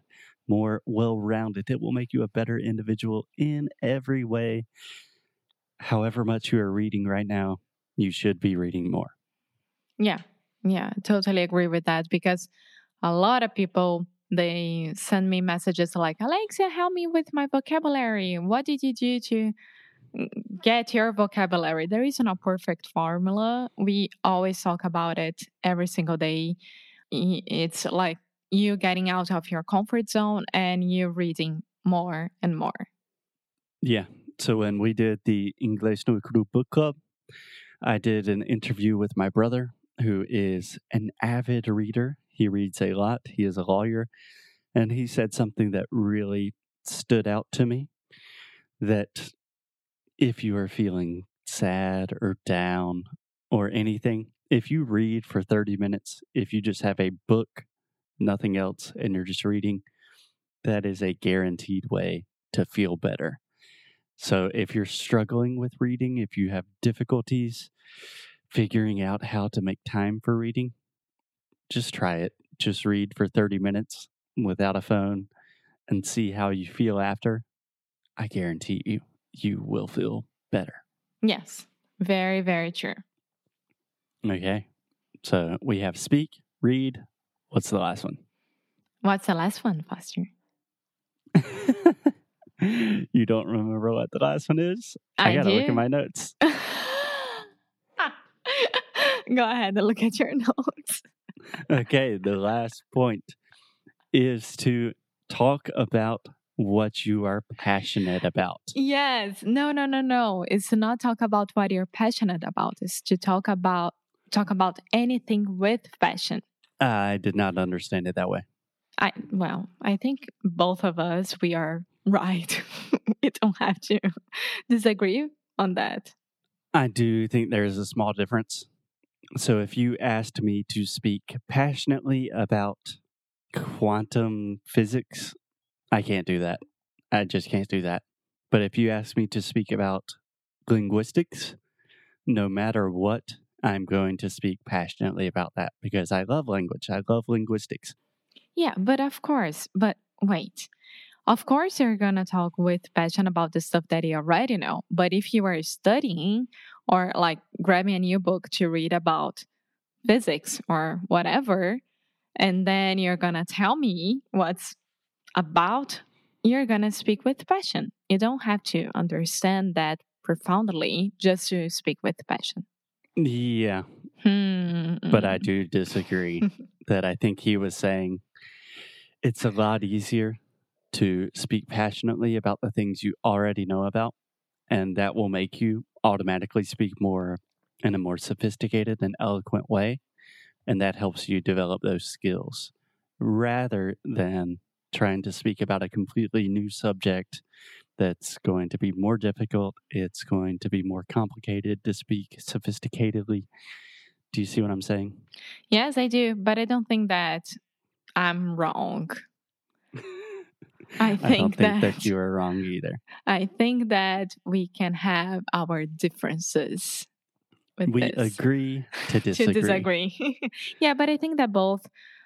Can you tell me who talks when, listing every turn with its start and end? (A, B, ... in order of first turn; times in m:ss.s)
0:00.5-0:04.6 A
0:05.8-0:09.1 A
0:10.0-0:12.5 B
0:13.0-0:19.5 B
0:20.1-0:26.6 B
0:27.1-0:32.8 B
0:33.8-0:36.9 A
0:37.8-0:44.1 A
0:44.7-0:47.9 A
0:48.8-0:49.3 A
0:50.2-0:57.7 A
0:58.2-0:59.8 A
1:00.6-1:03.4 A
1:04.2-1:07.7 A
1:08.5-1:10.7 A
1:11.7-1:15.3 A
1:15.9-1:17.4 A
1:18.2-1:20.8 A
1:21.2-1:23.0 B
1:24.2-1:24.7 A
1:25.2-1:28.2 A
1:29.0-1:30.3 B
1:31.4-1:32.0 A
1:32.6-1:36.3 A
1:35.2-1:35.8 B
1:36.4-1:37.4 B
1:38.0-1:41.0 B
1:41.7-1:43.4 A
1:44.1-1:48.7 A
1:48.7-1:56.4 B
1:56.8-1:58.4 A
1:59.0-2:06.1 B
2:06.7-2:08.7 A
2:09.4-2:13.0 A
2:13.5-2:15.3 A
2:15.9-2:16.6 A
2:17.1-2:20.1 A
2:20.7-2:21.6 A
2:22.3-2:28.0 A
2:28.5-2:30.7 B
2:31.3-2:39.4 B
2:40.0-2:41.8 B
2:42.4-2:44.8 B
2:45.4-2:52.6 B
2:53.2-2:53.8 A
2:54.2-2:55.4 B
2:55.1-2:58.2 A
2:59.2-3:00.4 A
3:00.9-3:04.1 A
3:04.7-3:10.0 A
3:10.7-3:17.4 A
3:18.0-3:23.5 A
3:24.3-3:25.2 A
3:25.7-3:27.5 B
3:28.2-3:29.2 B
3:31.0-3:32.1 B
3:31.2-3:33.0 A
3:33.3-3:37.1 B
3:37.8-3:38.4 B
3:37.8-3:39.9 A
3:39.0-3:41.9 B